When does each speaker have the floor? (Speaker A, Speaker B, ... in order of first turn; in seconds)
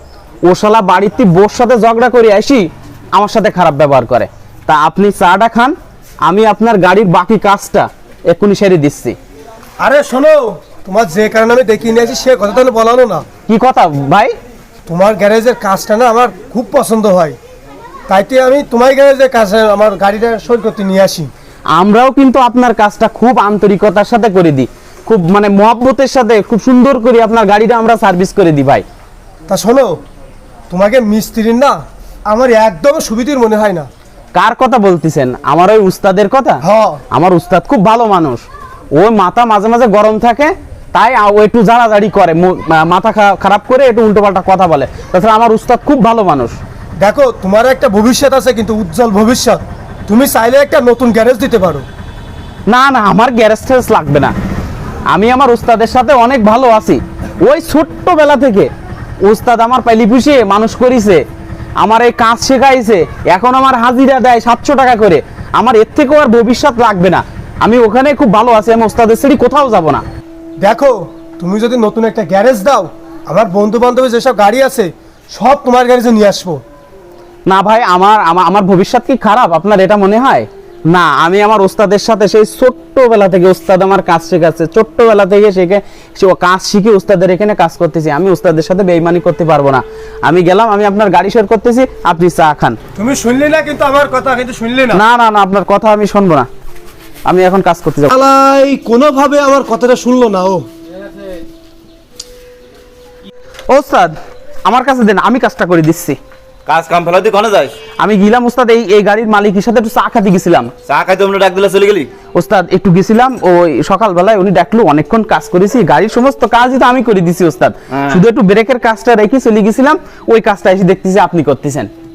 Speaker A: 0.4-9.2, 13.5-14.3, 21.7-28.8, 34.3-46.6, 52.7-54.3, 55.1-58.7, 59.2-61.2, 61.8-70.0, 77.5-92.8, 94.9-96.5, 97.2-98.1, 103.7-106.2, 108.0-110.7, 112.3-121.9
Speaker B: 9.8-13.2, 14.9-17.4, 18.1-21.3, 29.5-30.0, 30.7-33.9, 36.6-37.0, 47.0-51.9, 70.6-76.6, 93.0-95.0, 98.1-100.7
Speaker C: 106.7-107.8, 110.8-112.1, 117.9-118.2